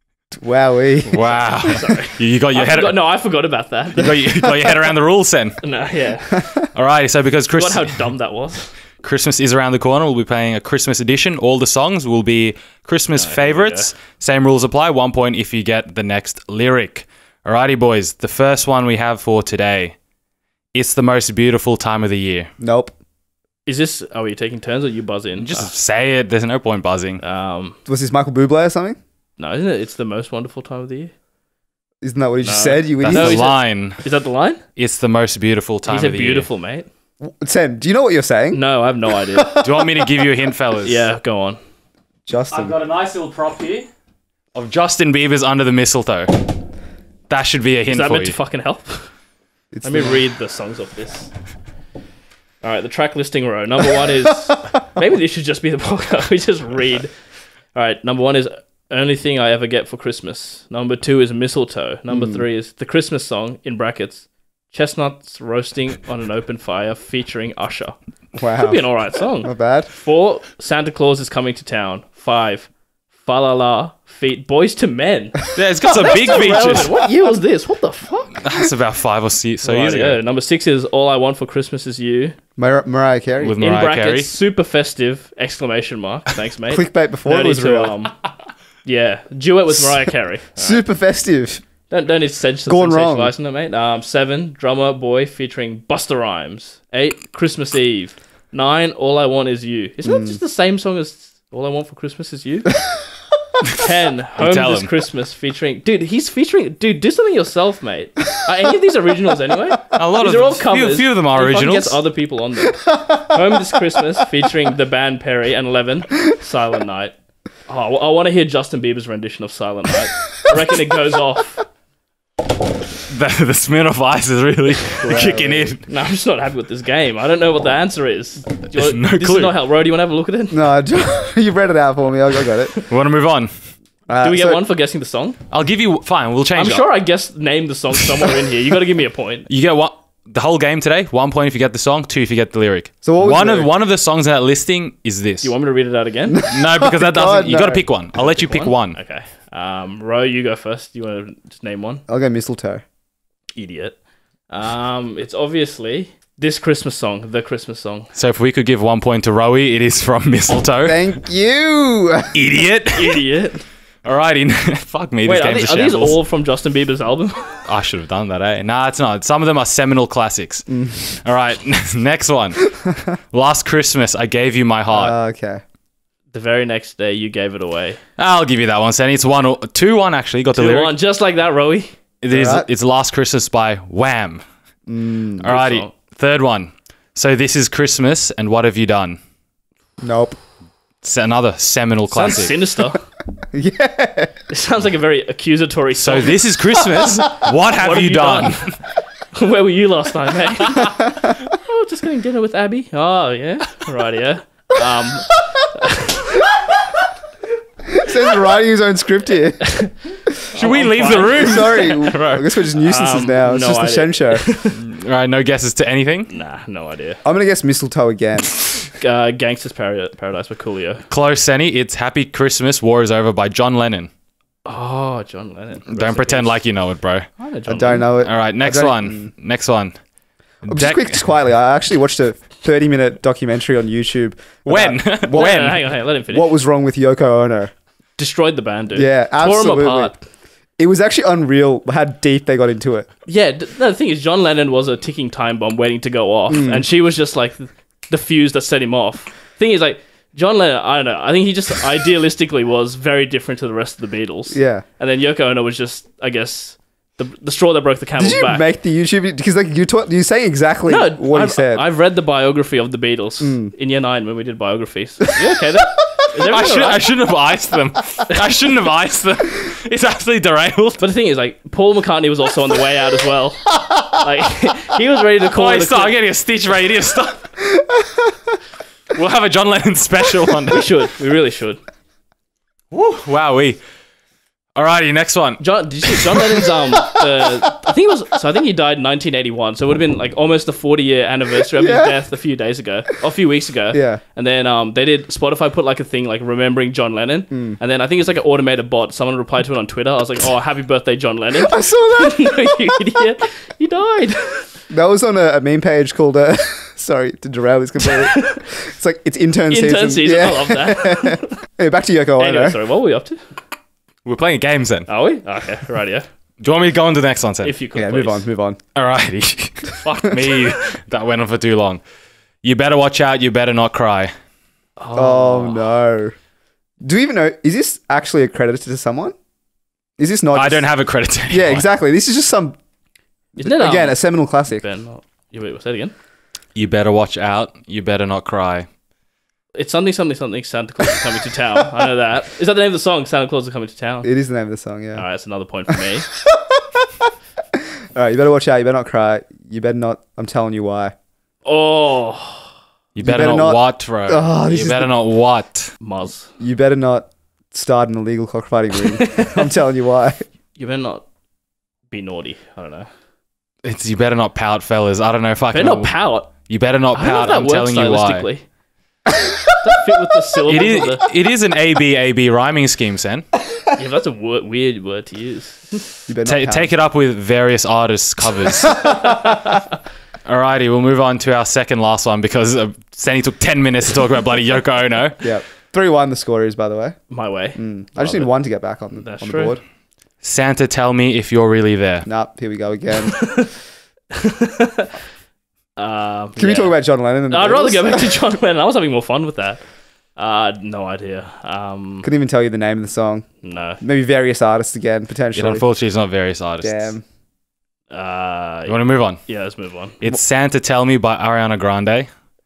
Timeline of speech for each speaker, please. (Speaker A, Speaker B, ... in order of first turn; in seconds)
Speaker A: 0.3-1.2, 22.6-22.9, 27.9-29.0, 32.0-33.5, 37.2-38.6, 39.3-40.1, 42.2-42.7, 49.7-50.2, 62.1-62.4, 68.3-68.8, 69.4-69.9, 76.0-77.1, 82.6-83.5, 86.7-88.0, 90.6-91.6, 92.7-93.3, 100.0-100.4, 112.9-113.2, 125.0-125.7, 130.5-132.7, 134.1-134.6, 143.0-143.7, 146.3-147.9, 152.1-152.8, 160.8-162.3, 170.7-171.0, 174.9-175.6, 182.3-182.7, 184.9-185.4, 190.0-190.4, 193.5-194.4, 207.9-209.7, 211.4-214.5, 217.2-218.5, 227.7-229.3, 230.7-235.7, 236.3-237.7, 238.9-240.2, 240.8-243.1, 246.5-246.8, 254.5-254.8, 258.2-261.8, 263.4-263.7, 291.7-292.2, 293.9-294.2, 297.5-297.8, 301.6-303.0, 304.9-312.8, 317.9-318.8, 320.3-320.5, 325.1-326.3, 327.0-329.3, 330.2-330.8, 331.5-332.8, 333.6-334.8, 344.2-345.2, 346.4-347.0, 348.1-351.1, 353.2-355.1, 356.6-360.4, 376.3-376.9, 385.4-387.2, 387.7-389.8, 392.2-393.4, 396.6-398.3, 402.2-403.5, 404.0-405.8, 406.8-407.2
Speaker B: 1.1-3.0, 4.0-5.6, 6.7-8.1, 9.0-20.0, 20.7-22.5, 25.4-27.2, 33.0-34.0, 34.8-36.5, 39.5-41.0, 42.5-43.9, 44.5-46.5, 47.3-48.3, 75.5-76.9, 78.4-80.2, 83.4-84.3, 104.4-104.9, 109.9-112.0, 123.1-125.8, 128.7-129.5, 132.9-133.5, 135.5-136.9, 139.5-145.5, 146.5-149.0, 158.1-161.1, 162.3-163.2, 164.0-166.2, 167.7-175.1, 178.2-180.9, 182.2-184.4, 185.4-189.2, 191.0-192.5, 196.0-198.7, 210.5-212.5, 214.7-216.3, 221.1-224.1, 225.9-227.3, 228.2-230.0, 230.6-231.2, 234.7-235.8, 266.4-271.0, 275.5-277.6, 279.1-280.9, 282.9-283.8, 284.8-286.4, 314.2-315.1, 316.6-317.8, 318.9-322.0, 322.6-324.3, 330.5-331.9, 336.7-338.9, 353.1-355.9, 363.8-368.5, 370.7-373.5, 376.4-379.3, 380.4-385.5, 390.4-392.3, 405.5-407.1, 408.9-409.4, 410.2-412.3
Speaker C: 1.6-4.2, 5.6-6.5, 7.5-8.7, 13.2-13.9, 23.6-25.7, 27.2-27.8, 29.4-31.1, 32.4-34.6, 35.9-36.9, 38.5-39.5, 40.8-41.6, 47.9-49.1, 49.8-51.3, 52.6-57.1, 57.7-68.0, 68.6-72.7, 73.2-78.4, 79.6-82.3, 83.6-88.1, 88.8-90.8, 91.9-102.8, 103.8-117.2, 117.7-121.6, 125.0-130.6, 134.2-135.4, 136.5-139.5, 145.4-146.4, 148.2-152.0, 153.6-154.0, 154.5-158.1, 162.9-163.6, 165.2-167.6, 176.3-178.0, 180.5-181.9, 185.5-185.9, 192.1-193.0, 194.5-198.8, 199.3-206.4, 209.6-209.9, 210.5-212.1, 212.7-214.8, 216.3-217.2, 219.0-221.0, 224.6-226.6, 227.4-228.1, 235.3-236.5, 238.2-240.1, 243.3-258.6, 260.9-267.0, 271.0-276.1, 280.7-281.8, 285.6-304.7, 308.3-308.6, 309.7-311.6, 312.4-313.4, 315.1-316.2, 317.6-318.4, 325.0-325.9, 333.6-336.1, 339.7-344.3, 345.1-346.3, 351.6-352.7, 356.0-356.5, 360.8-361.2, 362.1-363.1, 365.7-366.5, 367.1-368.6, 369.8-371.2, 373.9-376.1, 387.3-388.5, 389.2-389.8, 393.4-393.7, 394.3-395.1, 396.0-396.9, 397.5-399.8, 400.4-402.3, 403.6-404.0, 408.1-410.2